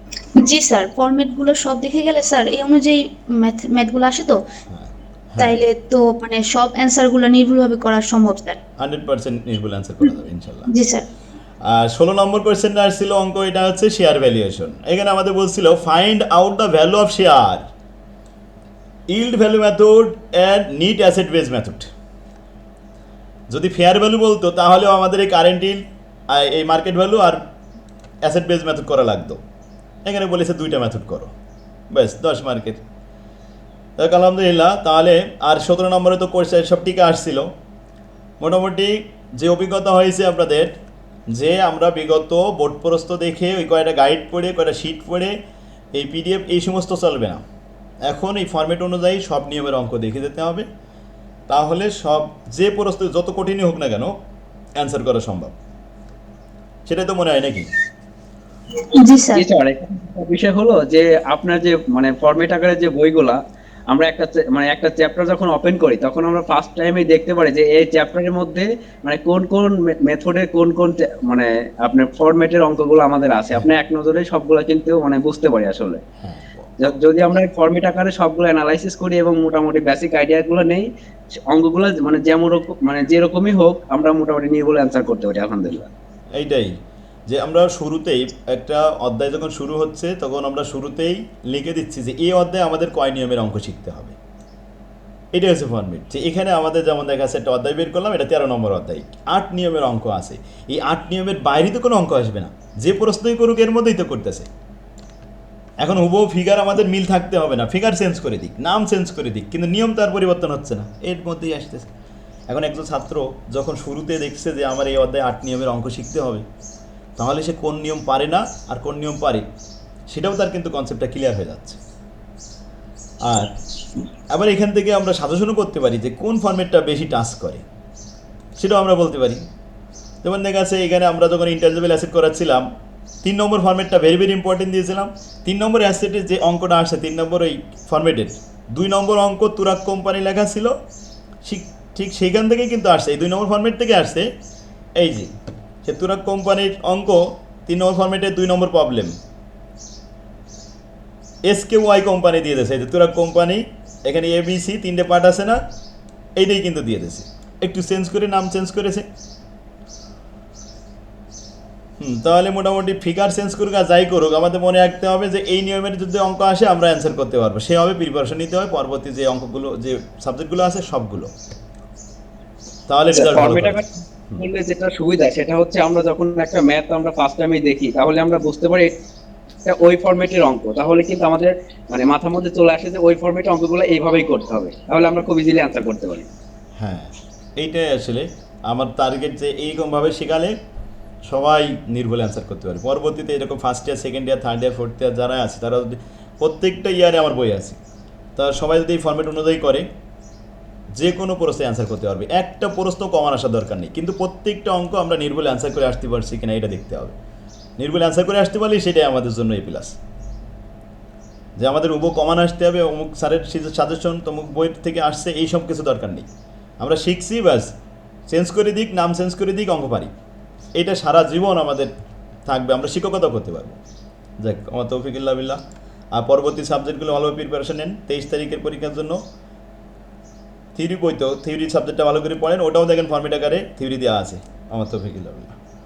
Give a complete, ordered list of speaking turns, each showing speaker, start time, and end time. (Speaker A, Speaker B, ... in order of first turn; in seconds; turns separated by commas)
Speaker A: 0.4-4.4, Speaker B: 4.7-5.7, Speaker A: 5.4-8.6, Speaker B: 8.8-10.7, Speaker A: 10.7-11.1, Speaker B: 11.6-17.6, Speaker B: 19.1-21.9, Speaker B: 23.5-27.4, Speaker B: 28.2-29.4, Speaker B: 30.1-31.3, Speaker B: 31.9-32.8, Speaker B: 34.0-37.5, Speaker B: 38.4-40.8, Speaker B: 41.3-45.4, Speaker B: 45.9-47.4, Speaker B: 48.0-50.7, Speaker B: 51.5-54.1, Speaker B: 54.8-55.5, Speaker B: 56.9-57.7, Speaker A: 58.9-59.5, Speaker C: 59.4-63.4, Speaker C: 63.9-76.0, Speaker B: 76.2-76.8, Speaker C: 76.8-80.9, Speaker C: 81.5-85.9, Speaker B: 86.4-86.8, Speaker B: 87.3-94.2, Speaker B: 95.3-104.5, Speaker B: 105.8-111.9, Speaker B: 112.5-116.5, Speaker B: 117.2-119.5, Speaker B: 120.1-121.8, Speaker B: 123.2-123.5, Speaker B: 124.3-127.6, Speaker B: 128.6-129.4, Speaker B: 130.2-132.7, Speaker B: 133.2-140.8, Speaker B: 141.4-144.3, Speaker B: 145.0-145.3, Speaker B: 145.8-149.2, Speaker B: 151.4-155.6, Speaker B: 156.4-159.1, Speaker B: 162.0-171.3, Speaker B: 172.9-174.4, Speaker C: 173.1-178.9, Speaker C: 179.7-186.3, Speaker B: 186.8-190.6, Speaker B: 191.3-197.8, Speaker B: 198.4-199.9, Speaker B: 200.9-207.2, Speaker B: 207.8-210.0, Speaker B: 211.6-216.3, Speaker B: 216.8-217.7, Speaker B: 218.3-220.1, Speaker B: 220.8-221.9, Speaker B: 222.5-223.8, Speaker B: 224.4-225.6, Speaker B: 226.1-229.2, Speaker B: 230.8-235.6